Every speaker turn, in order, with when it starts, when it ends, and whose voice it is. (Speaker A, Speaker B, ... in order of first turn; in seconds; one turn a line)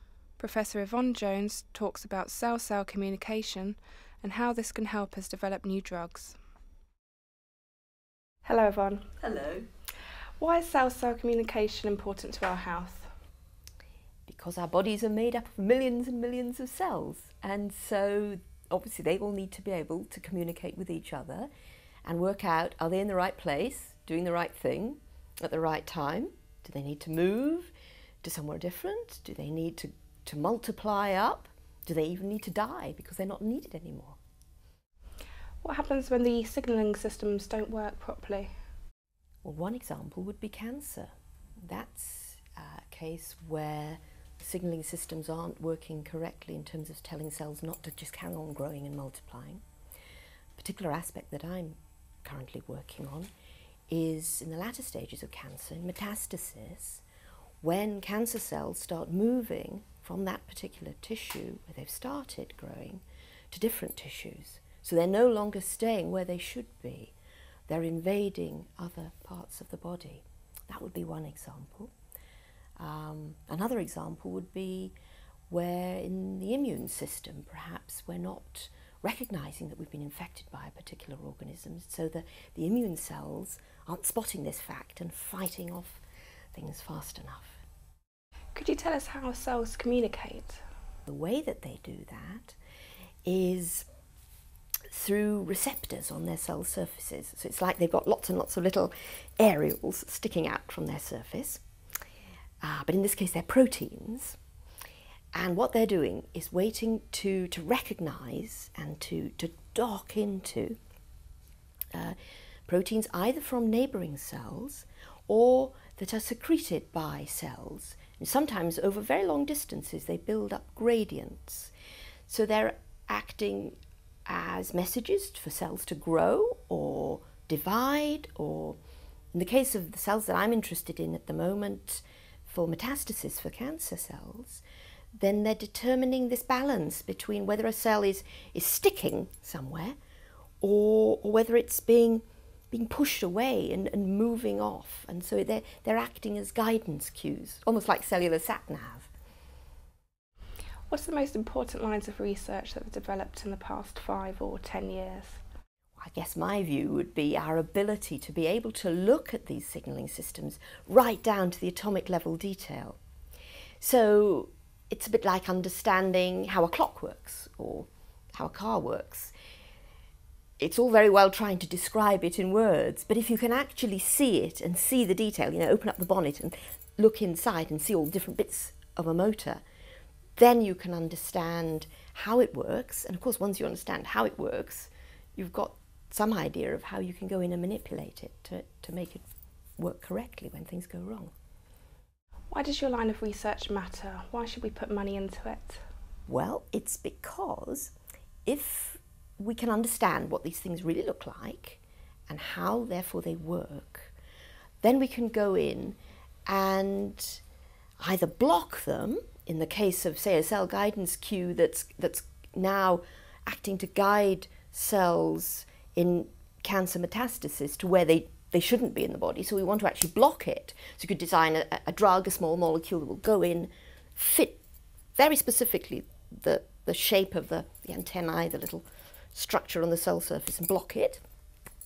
Speaker A: 0.4-6.4
Speaker A: 8.4-9.1
Speaker B: 9.2-9.7
Speaker A: 10.4-13.1
Speaker B: 14.3-21.5
Speaker B: 22.1-27.7
Speaker B: 28.2-34.2
Speaker A: 35.6-38.5
Speaker B: 39.4-49.6
Speaker B: 50.6-53.3
Speaker B: 53.9-57.0
Speaker B: 57.6-67.1
Speaker B: 67.7-71.9
Speaker B: 72.8-75.0
Speaker B: 75.5-86.0
Speaker B: 86.5-87.6
Speaker A: 88.5-90.6
Speaker B: 91.1-92.6
Speaker B: 93.2-93.9
Speaker B: 94.9-101.6
Speaker B: 102.6-104.4
Speaker B: 105.3-110.8
Speaker B: 112.7-121.7
Speaker B: 122.3-128.8
Speaker B: 129.3-134.6
Speaker B: 135.2-140.0
Speaker B: 140.6-149.1
Speaker A: 150.9-155.4
Speaker B: 156.0-163.0
Speaker B: 163.8-169.3
Speaker B: 170.6-179.6
Speaker B: 180.4-189.2
Speaker B: 189.8-191.3
Speaker A: 192.5-195.8
Speaker B: 196.3-197.9
Speaker B: 198.5-204.1
Speaker B: 204.8-207.4
Speaker B: 208.0-224.6
Speaker B: 225.2-231.2